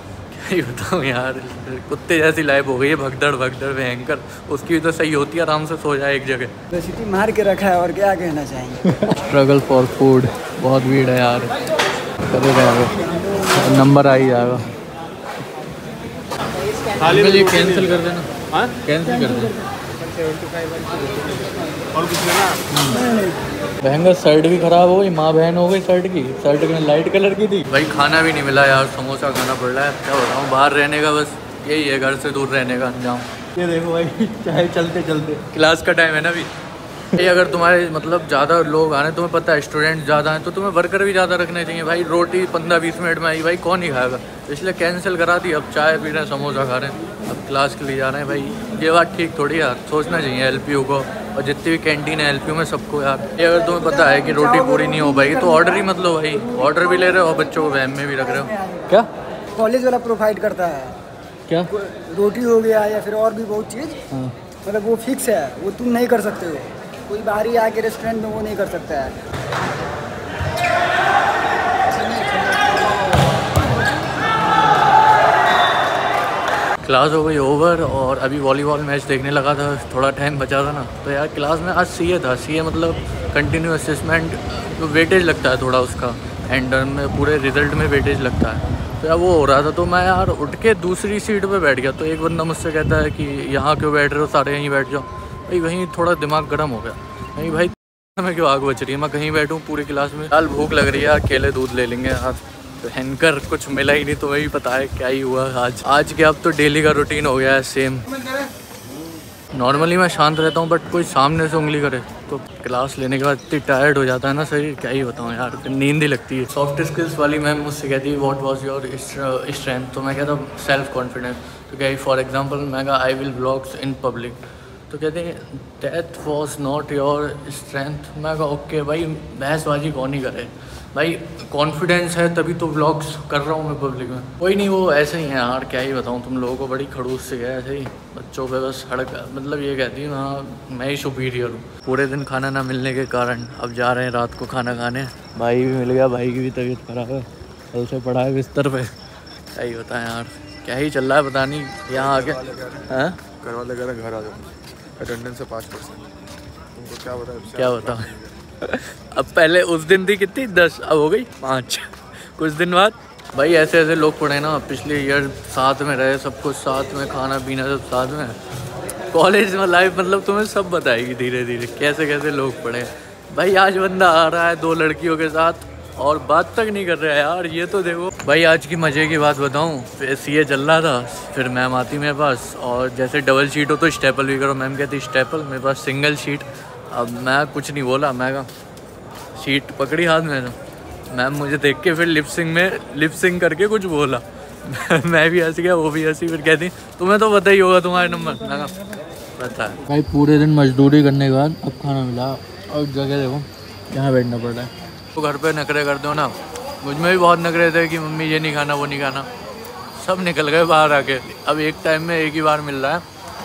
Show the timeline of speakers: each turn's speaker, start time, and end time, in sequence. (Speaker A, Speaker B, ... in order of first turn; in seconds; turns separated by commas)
Speaker A: 0.3-6.5, Speaker B: 6.7-8.9, Speaker A: 8.9-11.5, Speaker A: 12.3-14.6, Speaker A: 17.0-19.6, Speaker A: 22.7-23.1, Speaker A: 23.8-36.5, Speaker A: 37.1-59.1, Speaker B: 53.6-55.8, Speaker B: 58.4-58.9, Speaker B: 59.5-61.0, Speaker B: 61.7-64.0, Speaker B: 64.6-69.2, Speaker B: 71.9-73.2, Speaker A: 76.8-108.1, Speaker A: 109.5-148.9, Speaker A: 149.5-153.3, Speaker C: 152.0-152.8, Speaker C: 153.4-156.0, Speaker A: 155.0-155.7, Speaker C: 156.8-158.1, Speaker A: 157.5-168.4, Speaker A: 169.1-188.5, Speaker A: 189.3-190.6, Speaker A: 191.1-198.8, Speaker A: 199.4-209.3, Speaker A: 209.9-213.0